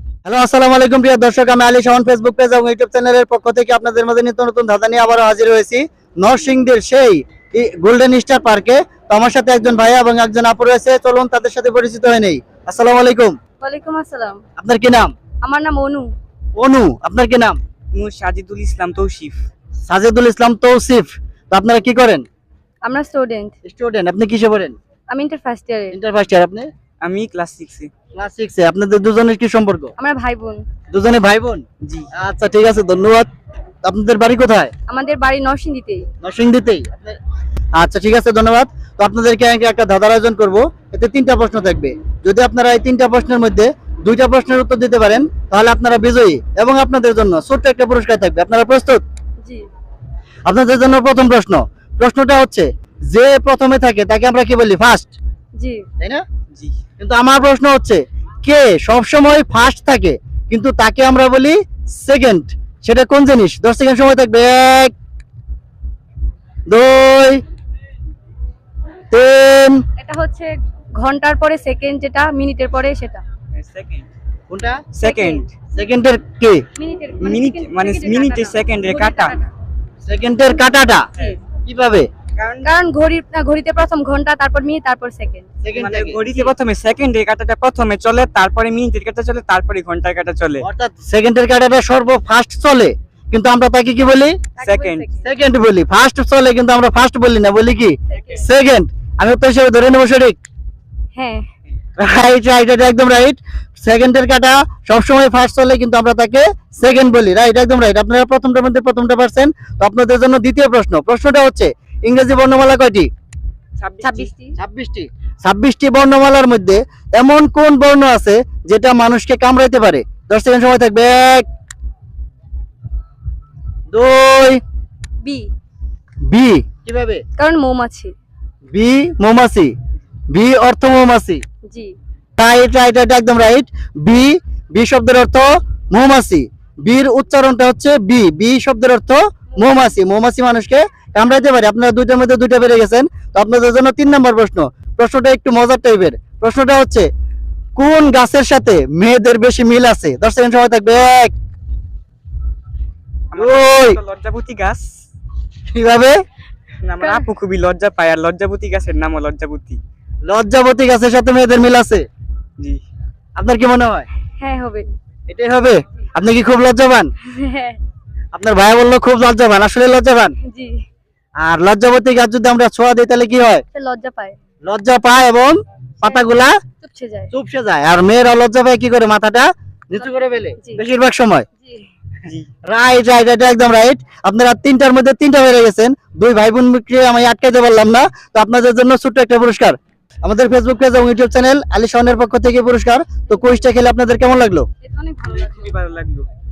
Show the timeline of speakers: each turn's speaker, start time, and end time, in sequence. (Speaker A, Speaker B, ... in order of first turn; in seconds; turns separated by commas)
Speaker A: 0.2-13.4, Speaker B: 13.6-14.4, Speaker A: 14.6-15.1, Speaker B: 15.4-16.1, Speaker A: 16.6-17.6, Speaker C: 17.9-19.4, Speaker A: 19.9-22.3, Speaker B: 22.8-23.6, Speaker A: 23.6-24.8, Speaker B: 25.1-26.0, Speaker A: 25.9-26.7, Speaker C: 27.0-27.9, Speaker A: 28.1-29.9, Speaker B: 30.0-30.6, Speaker A: 30.9-33.3, Speaker C: 31.8-32.1, Speaker A: 33.8-34.7, Speaker B: 34.9-36.1, Speaker A: 36.2-37.2, Speaker A: 37.8-49.0, Speaker A: 50.5-55.1, Speaker B: 55.6-55.9, Speaker C: 56.5-56.8, Speaker A: 57.0-64.9, Speaker A: 66.7-67.4, Speaker A: 69.1-69.8, Speaker B: 70.0-73.2, Speaker C: 73.5-74.1, Speaker A: 74.5-74.8, Speaker C: 74.9-75.5, Speaker B: 75.0-75.5, Speaker A: 75.7-76.7, Speaker B: 76.8-79.5, Speaker C: 77.2-79.4, Speaker A: 80.0-81.1, Speaker A: 81.6-82.1, Speaker C: 82.4-82.7, Speaker B: 82.6-85.5, Speaker A: 85.6-86.2, Speaker C: 85.8-90.7, Speaker A: 90.6-94.4, Speaker B: 94.6-95.3, Speaker C: 94.6-95.1, Speaker A: 95.2-100.4, Speaker B: 98.1-98.4, Speaker B: 101.2-101.4, Speaker A: 102.0-113.1, Speaker C: 113.8-114.3, Speaker B: 114.0-114.5, Speaker A: 114.6-121.5, Speaker A: 123.9-124.6, Speaker B: 125.2-125.5, Speaker A: 126.3-127.2, Speaker B: 127.4-128.1, Speaker A: 128.7-129.7, Speaker A: 130.3-131.4, Speaker B: 131.7-132.0, Speaker A: 132.4-147.1, Speaker B: 139.5-139.9, Speaker A: 147.8-151.3, Speaker C: 153.3-155.0, Speaker A: 153.4-154.0, Speaker A: 155.7-156.2, Speaker C: 156.8-159.8, Speaker B: 157.0-157.3, Speaker A: 160.3-162.1, Speaker A: 163.4-164.1, Speaker B: 164.4-164.9, Speaker A: 165.3-167.1, Speaker B: 167.2-167.8, Speaker A: 168.3-170.4, Speaker B: 170.4-170.8, Speaker A: 171.4-173.6, Speaker B: 173.7-174.4, Speaker A: 174.7-176.6, Speaker B: 176.8-177.3, Speaker A: 177.3-181.5, Speaker B: 180.0-180.8, Speaker B: 181.6-181.9, Speaker C: 182.2-182.5, Speaker A: 182.7-194.7, Speaker B: 193.3-193.6, Speaker B: 194.8-195.7, Speaker C: 195.2-196.3